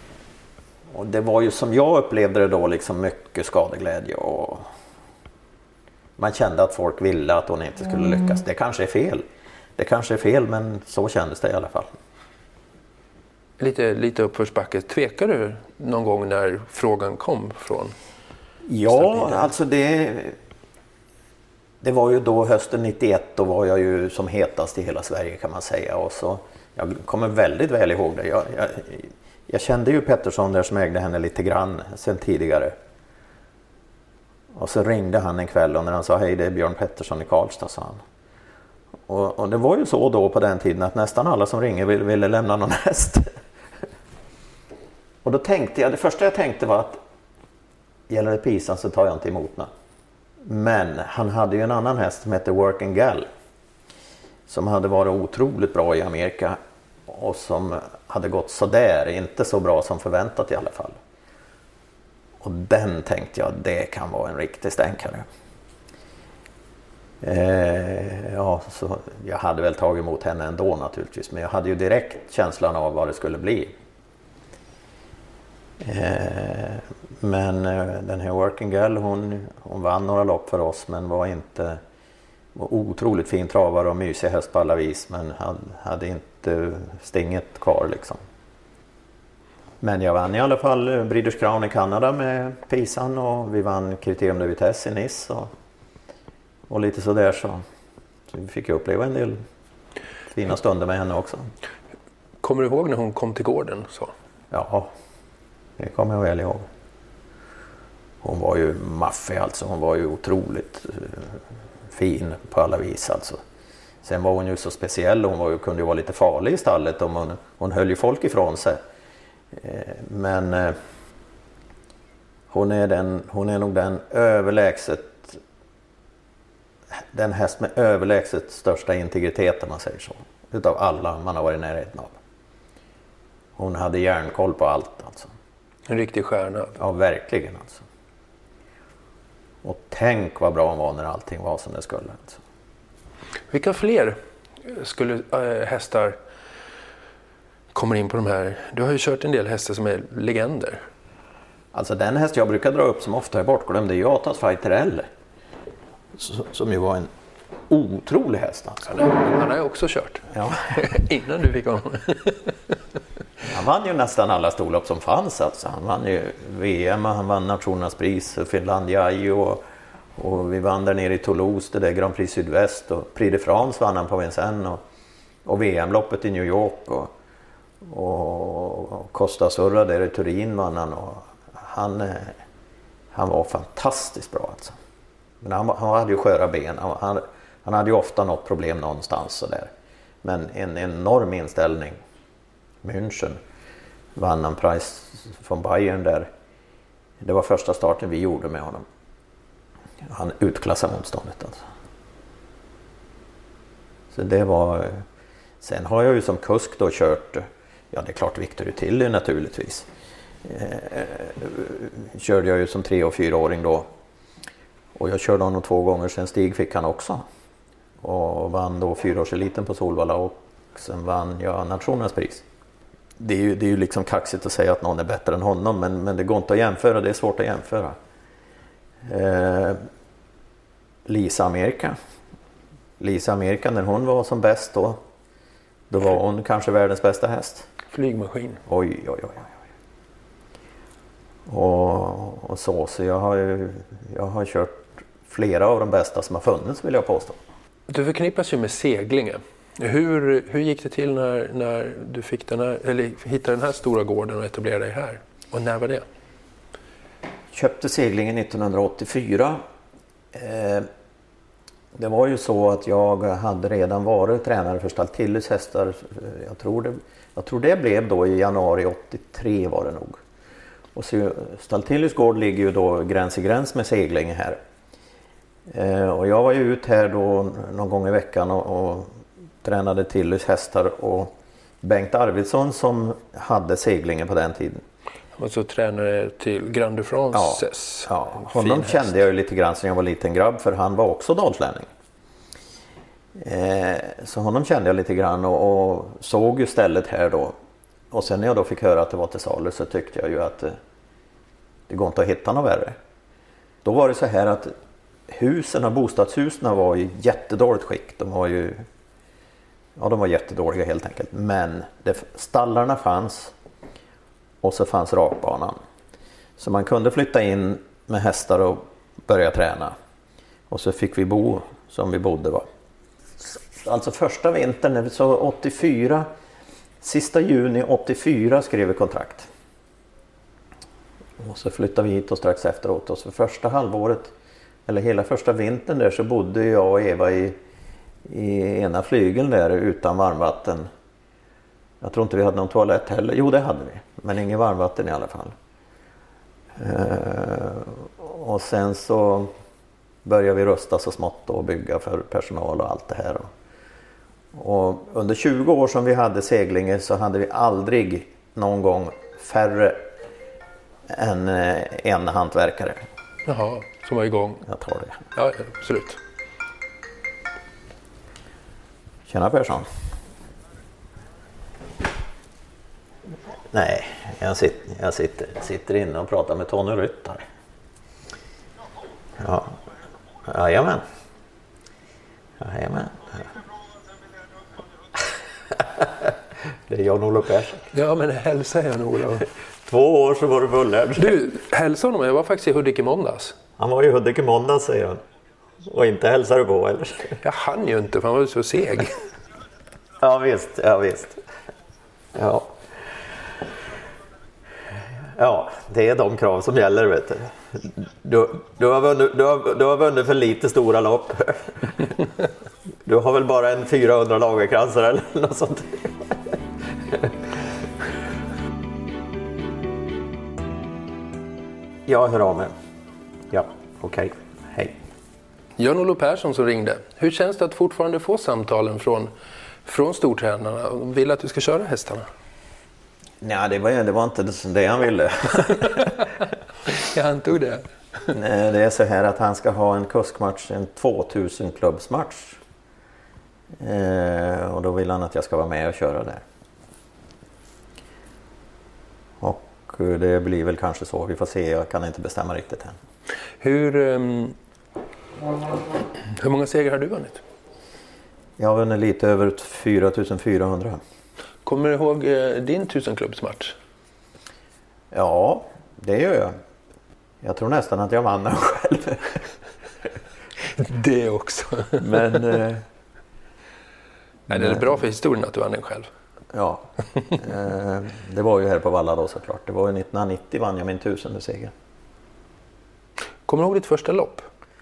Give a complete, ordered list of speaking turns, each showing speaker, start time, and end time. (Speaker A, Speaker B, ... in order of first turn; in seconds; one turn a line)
Speaker A: 0.9-4.7
Speaker A: 6.2-9.2
Speaker A: 9.8-11.9
Speaker B: 13.6-17.9
Speaker A: 18.6-20.4
Speaker B: 18.9-19.5
Speaker A: 21.8-32.7
Speaker A: 34.5-38.0
Speaker A: 39.1-43.3
Speaker A: 45.2-47.0
Speaker A: 48.1-49.7
Speaker A: 50.4-53.3
Speaker A: 54.5-61.0
Speaker A: 62.4-65.3
Speaker A: 67.2-73.7
Speaker A: 75.8-81.8
Speaker A: 82.5-88.2
Speaker A: 89.8-95.5
Speaker A: 96.7-97.6
Speaker A: 98.3-99.4
Speaker A: 100.3-101.5
Speaker B: 102.4-104.1
Speaker A: 104.5-104.9
Speaker A: 105.8-106.7
Speaker A: 108.2-113.4
Speaker A: 114.0-118.8
Speaker A: 119.5-120.8
Speaker A: 122.5-125.4
Speaker A: 127.1-132.2
Speaker A: 133.6-135.3
Speaker B: 135.9-136.8
Speaker A: 136.8-137.8
Speaker A: 139.6-142.4
Speaker B: 143.5-146.2
Speaker B: 147.7-150.8
Speaker A: 151.7-155.1
Speaker A: 156.2-157.1
Speaker A: 157.7-159.0
Speaker B: 158.9-162.7
Speaker A: 160.3-160.7
Speaker A: 163.5-169.6
Speaker A: 170.2-174.8
Speaker A: 175.4-177.1
Speaker A: 177.8-182.3
Speaker A: 183.1-184.8
Speaker A: 185.4-189.7
Speaker A: 190.2-192.0
Speaker A: 192.8-193.4
Speaker A: 194.2-196.3
Speaker A: 197.2-198.9
Speaker A: 200.0-201.6
Speaker A: 204.1-205.0
Speaker A: 205.6-209.9
Speaker A: 210.4-213.9
Speaker A: 214.9-217.2
Speaker A: 218.0-222.4
Speaker A: 223.2-228.0
Speaker A: 229.1-229.8
Speaker A: 231.1-232.0
Speaker A: 233.0-235.0
Speaker A: 235.9-237.7
Speaker B: 237.9-238.6
Speaker A: 238.7-239.5
Speaker A: 241.5-247.4
Speaker B: 247.9-256.1
Speaker A: 257.5-259.6
Speaker A: 260.3-260.9
Speaker A: 261.9-270.2
Speaker A: 270.9-274.6
Speaker A: 275.7-284.8
Speaker B: 285.4-289.1
Speaker A: 287.3-291.9
Speaker A: 293.4-297.6
Speaker A: 298.1-300.8
Speaker A: 301.9-303.0
Speaker A: 303.8-304.7
Speaker A: 305.3-308.8
Speaker A: 310.0-313.5
Speaker A: 314.6-315.8
Speaker A: 316.6-319.9
Speaker A: 320.7-322.7
Speaker A: 323.4-326.3
Speaker A: 327.0-329.5
Speaker A: 331.4-334.3
Speaker A: 334.9-337.6
Speaker A: 338.2-340.9
Speaker A: 342.0-345.5
Speaker A: 346.8-349.5
Speaker A: 350.2-353.5
Speaker A: 354.5-360.1
Speaker A: 361.1-363.0
Speaker B: 363.5-364.7
Speaker A: 364.7-365.2
Speaker B: 365.4-366.2
Speaker A: 369.3-369.9
Speaker A: 373.7-377.4
Speaker A: 379.4-379.8
Speaker A: 380.5-381.0
Speaker A: 382.6-383.5
Speaker A: 385.7-386.3
Speaker A: 386.9-387.9
Speaker B: 387.9-389.5
Speaker A: 389.9-391.4
Speaker B: 391.2-393.6
Speaker A: 393.8-395.2
Speaker A: 395.8-397.4
Speaker B: 397.4-399.1
Speaker A: 400.2-401.4
Speaker A: 402.3-402.8
Speaker A: 405.4-412.3
Speaker A: 413.1-416.6
Speaker A: 422.1-422.7
Speaker A: 423.5-424.9
Speaker B: 425.8-429.3
Speaker B: 429.9-432.3
Speaker A: 433.4-436.0
Speaker B: 436.9-437.9
Speaker A: 438.3-442.6
Speaker A: 443.8-446.4
Speaker A: 449.4-453.0
Speaker B: 453.6-454.6
Speaker B: 456.3-457.4
Speaker A: 458.6-461.0
Speaker B: 461.6-463.8
Speaker A: 465.1-466.6
Speaker A: 467.4-469.4
Speaker B: 470.8-472.2
Speaker A: 472.0-472.8
Speaker B: 474.5-476.1
Speaker A: 474.5-474.8
Speaker A: 476.5-481.7
Speaker B: 483.5-484.5